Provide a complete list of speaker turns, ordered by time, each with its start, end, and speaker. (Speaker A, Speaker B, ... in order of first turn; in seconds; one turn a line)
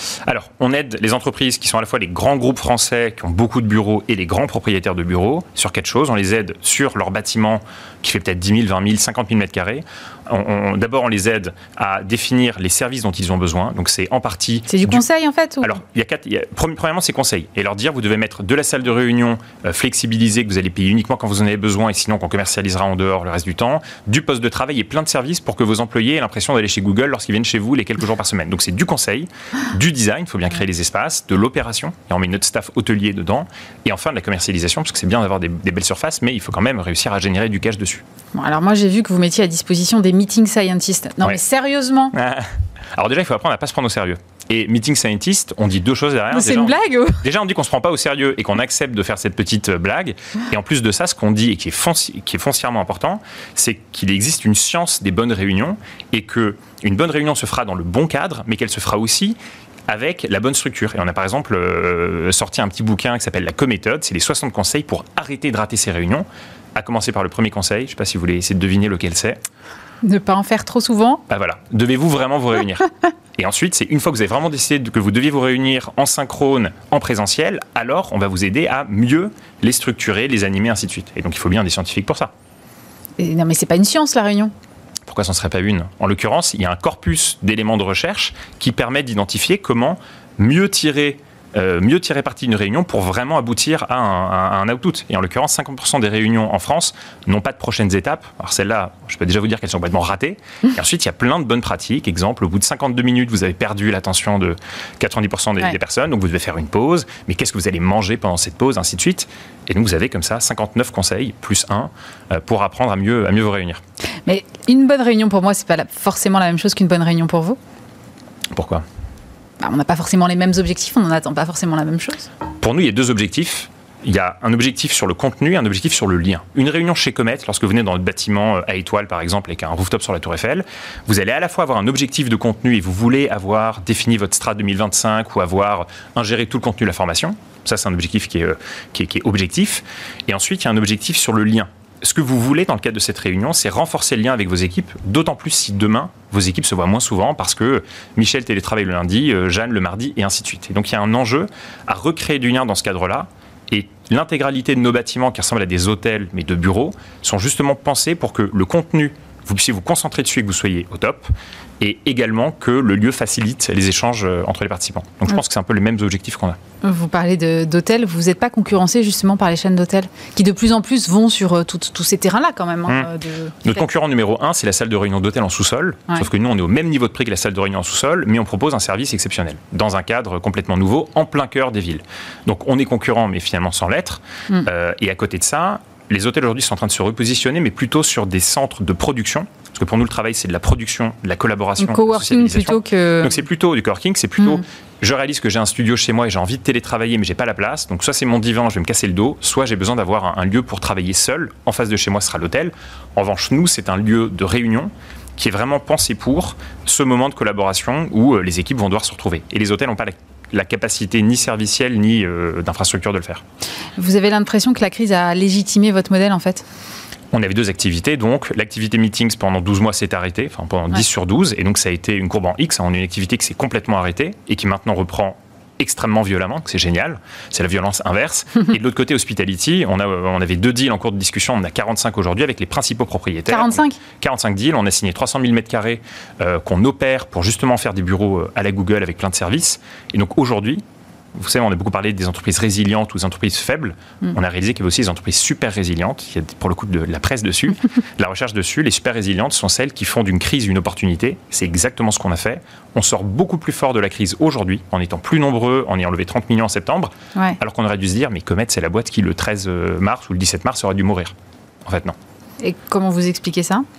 Speaker A: 0.2-15.0
Speaker B: 14.7-15.7
Speaker A: 15.6-38.0
Speaker B: 38.4-42.1
Speaker A: 42.1-59.4
Speaker B: 46.3-47.2
Speaker A: 59.9-69.4
Speaker B: 70.0-71.2
Speaker A: 71.3-82.3
Speaker B: 83.2-84.5
Speaker A: 85.1-113.8
Speaker B: 114.3-117.6
Speaker A: 118.5-118.8
Speaker B: 119.6-122.3
Speaker A: 122.6-166.6
Speaker B: 166.8-173.8
Speaker A: 173.6-213.4
Speaker B: 191.8-193.3
Speaker B: 214.0-216.7
Speaker A: 217.3-240.8
Speaker B: 233.5-234.0
Speaker A: 241.3-261.3
Speaker A: 261.9-262.1
Speaker B: 262.6-263.9